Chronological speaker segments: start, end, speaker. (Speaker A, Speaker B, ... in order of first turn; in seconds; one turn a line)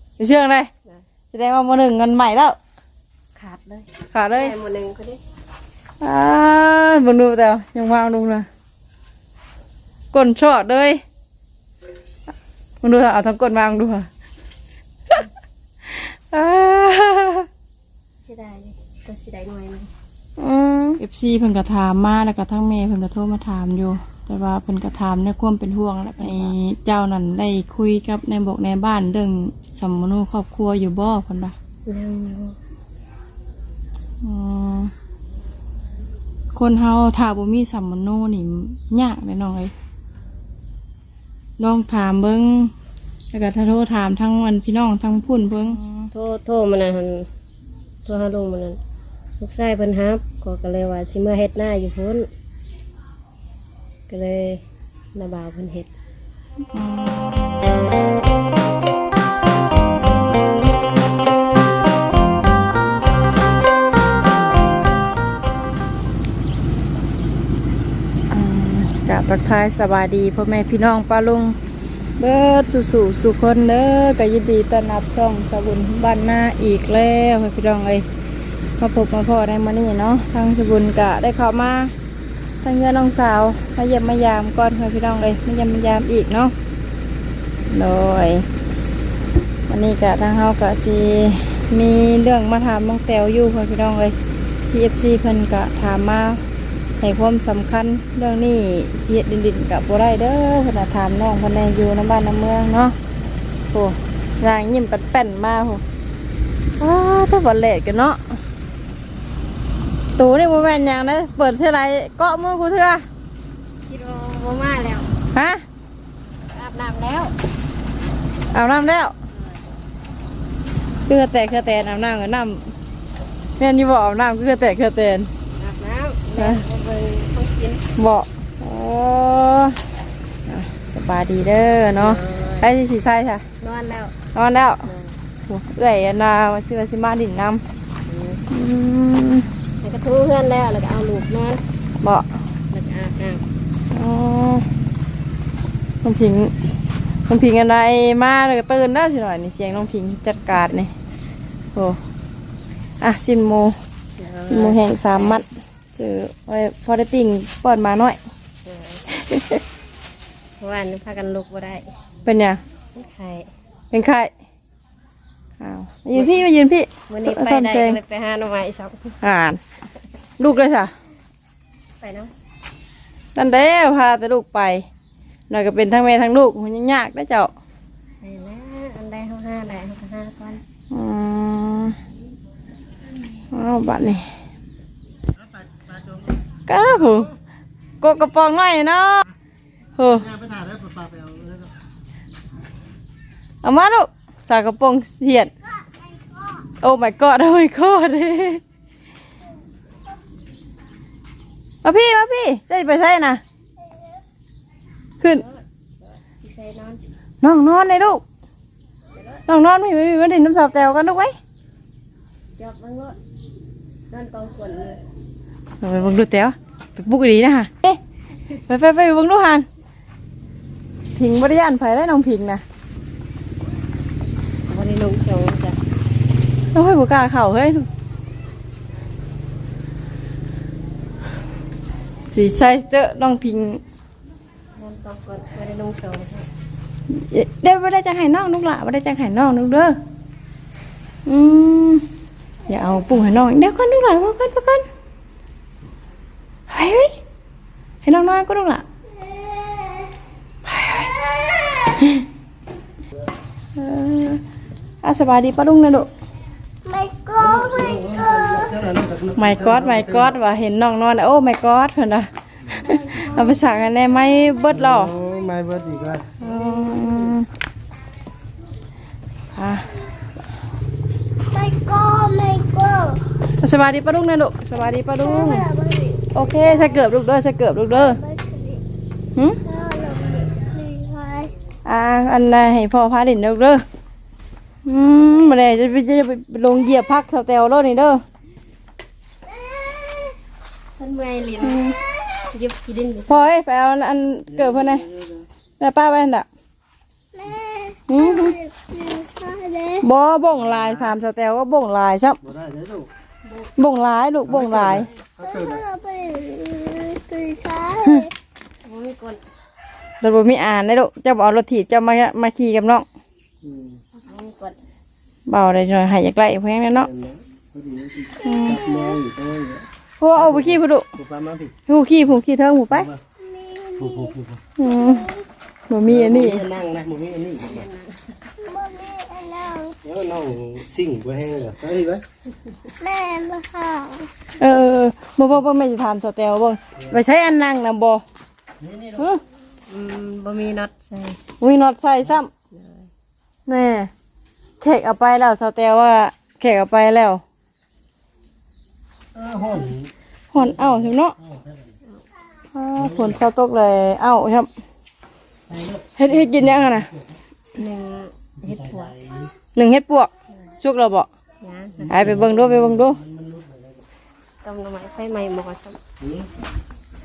Speaker A: 0.2-0.7
Speaker A: 1.3-2.6
Speaker B: 3.3-5.2
Speaker A: 4.1-4.5
Speaker A: 6.0-8.5
Speaker A: 10.1-11.0
Speaker A: 12.8-14.1
Speaker A: 15.8-17.5
Speaker B: 18.2-19.9
Speaker A: 20.4-31.6
Speaker B: 26.2-26.5
Speaker B: 31.9-32.6
Speaker A: 34.2-34.9
Speaker A: 36.5-39.7
Speaker A: 41.6-42.7
Speaker A: 43.3-46.0
Speaker B: 46.1-47.3
Speaker B: 48.0-48.8
Speaker B: 49.4-52.3
Speaker B: 54.1-54.6
Speaker B: 55.1-55.9
Speaker A: 56.7-57.3
Speaker A: 68.3-71.6
Speaker A: 72.2-78.1
Speaker A: 78.8-81.9
Speaker A: 82.6-86.5
Speaker A: 87.7-88.5
Speaker A: 89.7-94.2
Speaker A: 94.7-96.4
Speaker A: 97.0-103.0
Speaker A: 103.7-105.8
Speaker A: 106.8-108.4
Speaker A: 110.2-113.1
Speaker B: 113.9-115.2
Speaker A: 115.3-115.6
Speaker B: 116.5-117.3
Speaker A: 118.5-119.2
Speaker B: 119.3-119.6
Speaker A: 121.1-122.7
Speaker A: 123.6-125.3
Speaker B: 125.5-127.8
Speaker A: 126.4-126.6
Speaker A: 128.0-129.9
Speaker A: 130.4-133.4
Speaker B: 131.9-132.7
Speaker B: 133.6-134.2
Speaker A: 134.3-134.9
Speaker B: 134.8-135.2
Speaker A: 135.4-137.6
Speaker B: 138.1-138.4
Speaker A: 138.5-139.5
Speaker B: 139.8-141.6
Speaker A: 142.0-142.3
Speaker B: 142.7-143.4
Speaker A: 143.9-144.7
Speaker A: 146.0-146.5
Speaker A: 147.3-150.9
Speaker A: 151.7-152.0
Speaker A: 153.0-153.7
Speaker B: 154.2-155.5
Speaker A: 154.5-158.2
Speaker B: 158.6-159.1
Speaker A: 159.1-159.6
Speaker B: 160.6-161.9
Speaker A: 162.2-162.6
Speaker B: 162.9-163.5
Speaker A: 163.9-164.3
Speaker A: 165.6-168.0
Speaker B: 167.1-169.2
Speaker A: 169.2-169.6
Speaker A: 170.4-170.9
Speaker B: 172.0-172.3
Speaker A: 173.3-174.8
Speaker A: 175.5-177.5
Speaker B: 178.2-180.6
Speaker A: 180.9-182.0
Speaker A: 183.5-184.3
Speaker A: 186.7-187.3
Speaker A: 188.0-189.3
Speaker A: 190.0-190.5
Speaker C: 190.5-191.6
Speaker A: 193.6-195.5
Speaker A: 196.8-198.6
Speaker A: 201.8-203.4
Speaker B: 205.2-207.1
Speaker A: 207.4-208.2
Speaker B: 209.2-209.4
Speaker A: 209.5-211.3
Speaker B: 212.6-213.2
Speaker B: 214.1-215.0
Speaker A: 215.8-218.0
Speaker A: 218.7-219.7
Speaker A: 221.2-222.6
Speaker B: 224.7-225.8
Speaker A: 226.7-227.9
Speaker A: 232.3-233.8
Speaker B: 234.8-236.5
Speaker A: 237.1-240.0
Speaker A: 241.2-242.1
Speaker A: 242.7-244.9
Speaker A: 246.7-247.2
Speaker A: 248.0-248.8
Speaker D: 249.6-249.9
Speaker A: 250.6-251.1
Speaker A: 251.8-252.3
Speaker A: 253.8-254.4
Speaker A: 255.0-256.1
Speaker D: 256.9-257.8
Speaker C: 257.4-260.3
Speaker A: 259.4-265.1
Speaker C: 264.7-266.5
Speaker A: 266.4-267.5
Speaker A: 269.5-269.9
Speaker D: 271.5-273.2
Speaker A: 273.6-275.7
Speaker D: 275.4-276.1
Speaker A: 276.3-278.2
Speaker D: 278.1-278.8
Speaker A: 279.3-279.6
Speaker D: 279.7-281.5
Speaker A: 281.8-283.8
Speaker A: 284.8-288.2
Speaker B: 291.0-293.5
Speaker A: 291.6-292.0
Speaker A: 293.3-295.1
Speaker C: 294.7-295.1
Speaker A: 295.8-296.5
Speaker D: 297.5-298.0
Speaker A: 298.1-298.6
Speaker D: 298.9-300.0
Speaker A: 300.0-302.4
Speaker C: 302.4-303.1
Speaker A: 303.8-305.1
Speaker C: 304.4-305.9
Speaker D: 305.7-308.1
Speaker B: 308.8-309.4
Speaker A: 310.2-313.1
Speaker C: 313.6-314.0
Speaker B: 314.1-314.8
Speaker A: 315.5-317.1
Speaker C: 317.0-321.8
Speaker A: 318.4-318.9
Speaker A: 320.2-321.1
Speaker A: 321.9-323.1
Speaker C: 323.9-324.6
Speaker A: 324.8-325.3
Speaker A: 325.9-326.7
Speaker C: 326.1-327.9
Speaker B: 327.5-328.7
Speaker D: 328.8-329.9
Speaker C: 330.0-332.2
Speaker D: 333.0-334.2
Speaker A: 334.6-338.2
Speaker C: 338.8-339.2
Speaker A: 339.1-339.4
Speaker B: 339.9-341.4
Speaker A: 341.6-342.5
Speaker B: 342.7-343.1
Speaker A: 343.7-344.1
Speaker A: 344.8-347.4
Speaker C: 349.3-350.1
Speaker A: 350.5-351.4
Speaker A: 352.7-354.7
Speaker C: 355.7-356.0
Speaker A: 356.2-357.1
Speaker B: 357.7-359.2
Speaker C: 359.0-359.3
Speaker A: 359.7-360.3
Speaker A: 360.8-361.3
Speaker B: 361.6-362.3
Speaker A: 362.1-363.2
Speaker C: 362.3-363.9
Speaker B: 364.6-366.0
Speaker C: 366.2-366.5